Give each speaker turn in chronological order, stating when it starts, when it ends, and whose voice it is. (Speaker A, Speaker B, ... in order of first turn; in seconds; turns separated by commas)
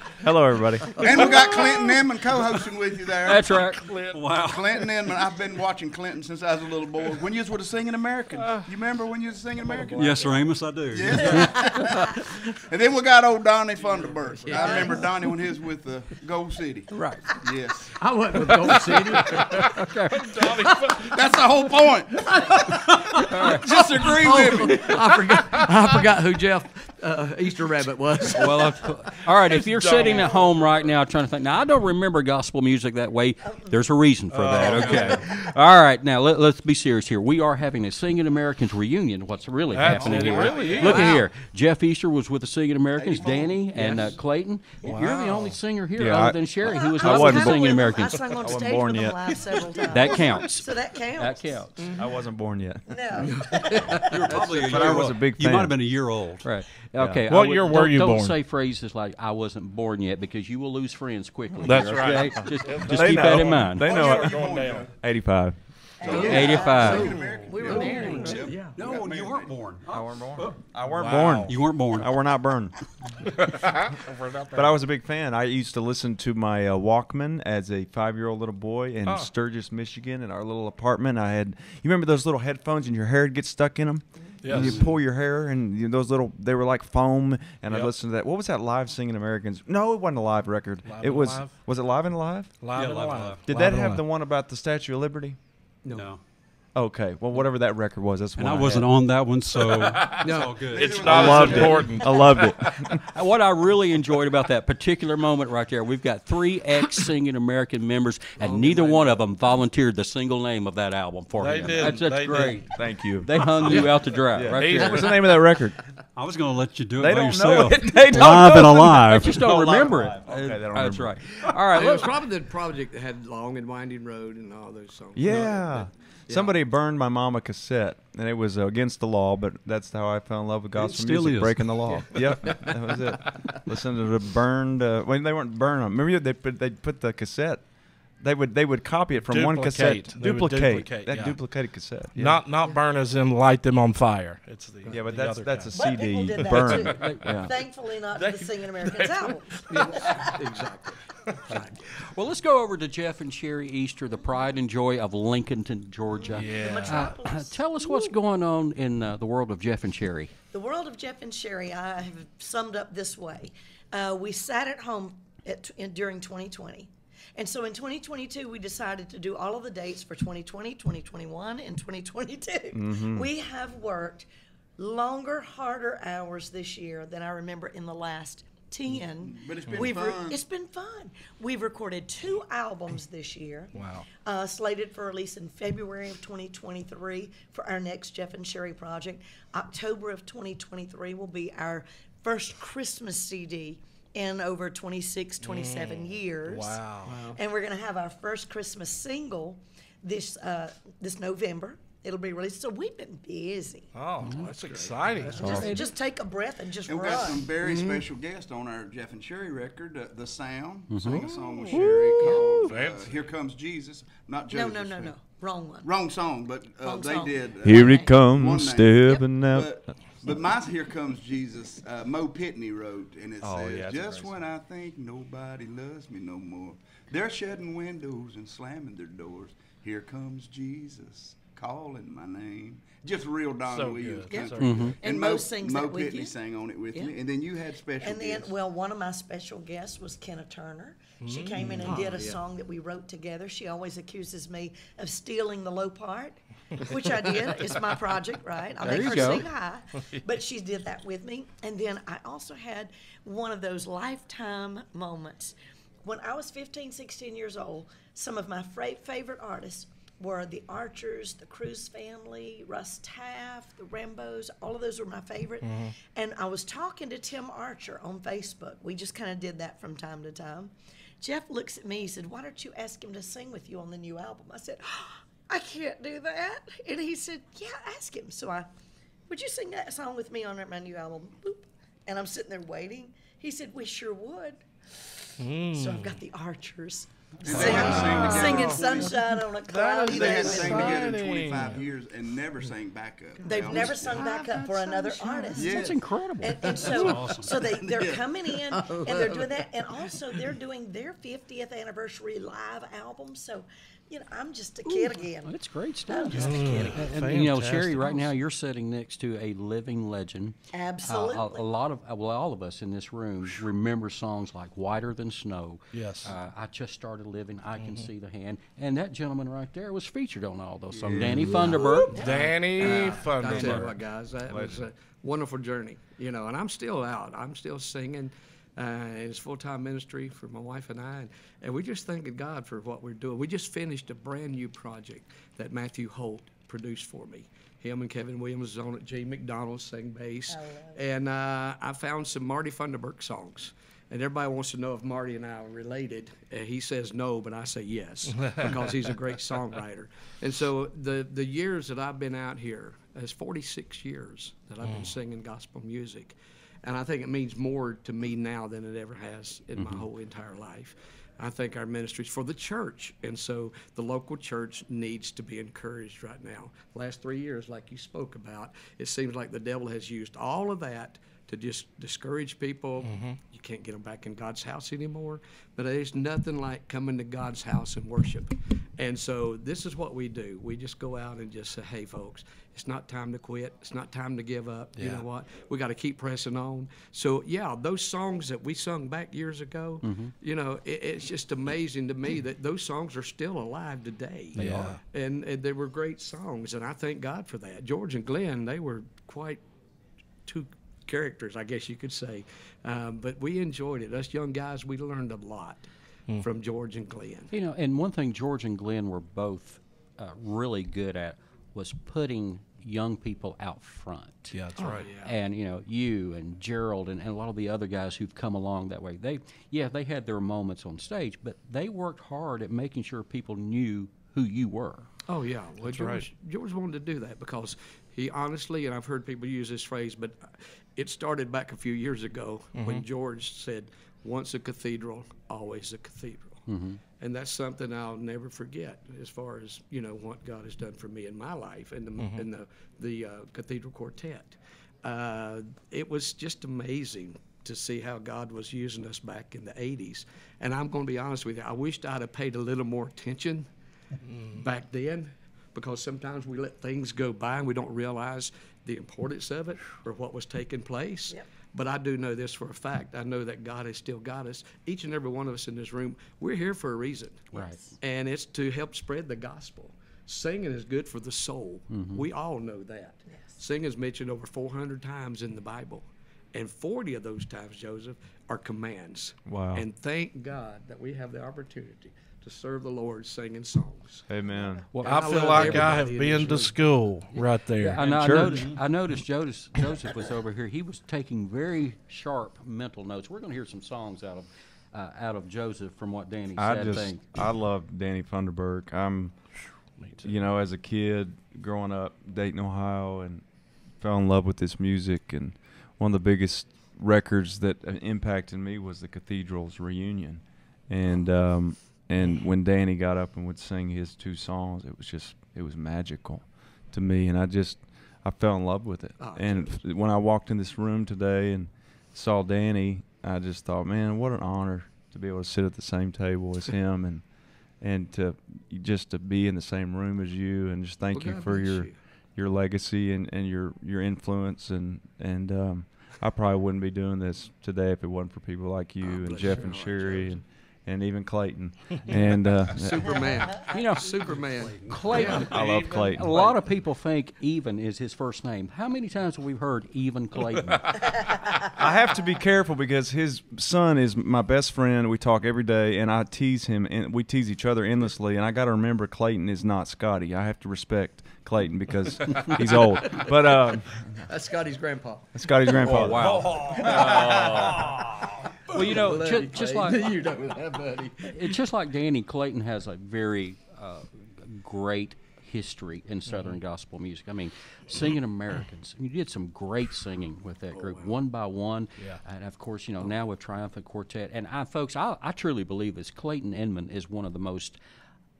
Speaker A: 0.2-1.0, Speaker B: 1.0-1.9, Speaker C: 1.0-3.7, Speaker D: 3.3-3.9, Speaker B: 3.8-4.3, Speaker E: 4.1-4.7, Speaker C: 4.3-10.3, Speaker B: 8.4-8.7, Speaker B: 9.7-10.1, Speaker E: 9.9-11.8, Speaker C: 10.9-12.2, Speaker F: 11.2-11.5, Speaker C: 12.7-17.9, Speaker G: 13.8-15.2, Speaker F: 14.5-15.0, Speaker D: 16.9-17.2, Speaker G: 17.9-19.8, Speaker D: 19.8-20.3, Speaker B: 20.2-20.9, Speaker G: 20.5-21.0, Speaker C: 21.0-25.0, Speaker G: 22.3-28.8, Speaker D: 23.3-23.7, Speaker B: 25.4-25.8, Speaker D: 28.3-48.3, Speaker B: 29.4-30.6, Speaker F: 30.1-30.5, Speaker F: 33.4-34.0, Speaker B: 34.3-35.3, Speaker E: 34.6-35.1, Speaker B: 39.7-41.2, Speaker C: 42.9-43.7, Speaker G: 43.8-44.1, Speaker B: 44.8-45.6, Speaker A: 46.0-49.5, Speaker F: 46.6-51.7, Speaker D: 49.9-51.9, Speaker A: 52.0-53.2, Speaker F: 52.9-54.1, Speaker G: 53.3-54.4, Speaker E: 54.0-56.5, Speaker A: 54.5-55.8, Speaker D: 56.4-63.9, Speaker A: 57.0-57.2, Speaker B: 57.3-58.4, Speaker B: 61.6-64.9, Speaker A: 62.9-65.6, Speaker C: 63.8-65.0, Speaker F: 66.0-68.5, Speaker C: 66.0-69.7, Speaker G: 66.1-66.4, Speaker D: 66.2-67.1, Speaker G: 66.9-68.8, Speaker E: 68.7-70.8, Speaker A: 69.9-72.8, Speaker B: 70.8-71.5, Speaker E: 71.4-72.3, Speaker B: 73.3-74.7, Speaker A: 74.5-92.6, Speaker B: 84.4-84.9, Speaker E: 84.5-84.8, Speaker B: 90.9-91.6, Speaker B: 92.6-94.0, Speaker E: 92.7-93.4, Speaker A: 93.5-95.4, Speaker G: 95.8-96.1, Speaker E: 95.9-96.2, Speaker A: 96.8-98.9, Speaker E: 98.4-101.6, Speaker B: 99.7-103.0, Speaker G: 100.2-101.2, Speaker C: 100.7-102.0, Speaker A: 101.1-103.1, Speaker D: 103.1-115.2, Speaker G: 108.4-109.5, Speaker B: 111.4-112.7, Speaker A: 112.7-115.8, Speaker B: 114.5-115.1, Speaker E: 116.2-119.6, Speaker A: 117.0-121.2, Speaker D: 119.1-122.2, Speaker G: 121.7-126.6, Speaker A: 125.1-142.4, Speaker E: 130.8-132.2, Speaker G: 132.1-133.6, Speaker B: 139.3-145.7, Speaker G: 142.6-142.8, Speaker G: 144.8-145.2, Speaker A: 144.9-147.5, Speaker F: 145.7-149.9, Speaker B: 146.3-147.2, Speaker D: 147.0-147.3, Speaker B: 148.1-150.3, Speaker G: 149.7-151.8, Speaker D: 151.5-160.3, Speaker F: 154.2-154.5, Speaker F: 156.2-158.2, Speaker B: 156.3-157.1, Speaker F: 160.5-174.3, Speaker A: 172.7-173.3, Speaker F: 174.8-203.9, Speaker C: 179.2-180.4, Speaker B: 183.8-184.1, Speaker B: 195.4-197.2, Speaker G: 197.0-197.4, Speaker B: 203.9-205.7, Speaker D: 204.2-204.5, Speaker G: 204.4-205.8, Speaker F: 205.3-207.5, Speaker D: 205.4-205.8, Speaker C: 206.8-215.2, Speaker G: 207.6-208.1, Speaker D: 210.9-211.3, Speaker B: 211.0-213.1, Speaker F: 214.5-215.9, Speaker C: 215.8-238.5, Speaker F: 216.8-218.3, Speaker A: 217.6-219.9, Speaker A: 223.4-224.4, Speaker B: 233.7-235.0, Speaker F: 234.3-236.3, Speaker D: 234.6-235.0, Speaker F: 238.0-278.7, Speaker B: 241.2-242.1, Speaker G: 241.6-242.4, Speaker D: 248.8-249.5, Speaker B: 265.6-265.9, Speaker F: 279.3-291.2, Speaker B: 285.4-286.2, Speaker C: 287.4-289.1, Speaker B: 287.5-291.7, Speaker G: 287.6-288.4, Speaker C: 290.1-294.3, Speaker G: 290.4-291.1, Speaker G: 293.4-296.0, Speaker F: 293.4-307.1, Speaker C: 295.6-296.0, Speaker D: 295.6-296.8, Speaker G: 296.6-297.1, Speaker E: 296.9-297.6, Speaker C: 297.0-298.3, Speaker G: 298.6-300.5, Speaker G: 304.9-305.3, Speaker D: 305.4-322.2, Speaker B: 306.3-308.3, Speaker F: 310.7-311.7, Speaker B: 315.9-316.4, Speaker B: 317.8-318.1, Speaker A: 321.1-321.6, Speaker G: 321.5-399.6, Speaker B: 322.1-323.9, Speaker D: 322.8-323.9, Speaker A: 324.5-324.9, Speaker F: 340.5-341.0, Speaker B: 354.8-355.1, Speaker D: 359.8-360.1, Speaker B: 373.0-373.4, Speaker B: 385.0-385.3, Speaker D: 390.0-390.3, Speaker D: 394.6-394.9, Speaker B: 394.6-395.0, Speaker G: 400.4-407.5, Speaker D: 407.5-425.1, Speaker B: 414.5-415.1, Speaker G: 414.8-415.3, Speaker G: 425.3-436.6, Speaker B: 425.8-426.3, Speaker B: 432.8-433.1, Speaker D: 436.7-437.0, Speaker G: 437.2-453.7, Speaker B: 442.2-442.5, Speaker G: 454.4-467.5, Speaker D: 467.5-467.8, Speaker F: 467.5-467.9, Speaker G: 468.0-484.3, Speaker D: 471.9-472.3, Speaker A: 479.4-479.9, Speaker A: 484.3-484.9, Speaker B: 484.9-488.2, Speaker G: 485.0-487.4, Speaker D: 485.2-486.0, Speaker D: 487.8-497.3, Speaker E: 488.0-488.8, Speaker A: 488.0-488.7, Speaker A: 496.6-543.3, Speaker B: 499.6-500.3, Speaker G: 519.2-519.8, Speaker G: 531.1-532.0, Speaker G: 539.0-540.4, Speaker G: 542.7-545.6, Speaker D: 543.7-551.1, Speaker E: 544.0-545.0, Speaker B: 545.1-546.8, Speaker A: 545.2-546.3, Speaker A: 551.7-564.2, Speaker G: 562.6-571.5, Speaker A: 565.3-566.5, Speaker D: 565.8-567.9, Speaker B: 566.4-566.8, Speaker D: 568.7-570.2, Speaker D: 571.2-587.8, Speaker B: 576.3-576.6, Speaker G: 580.7-581.1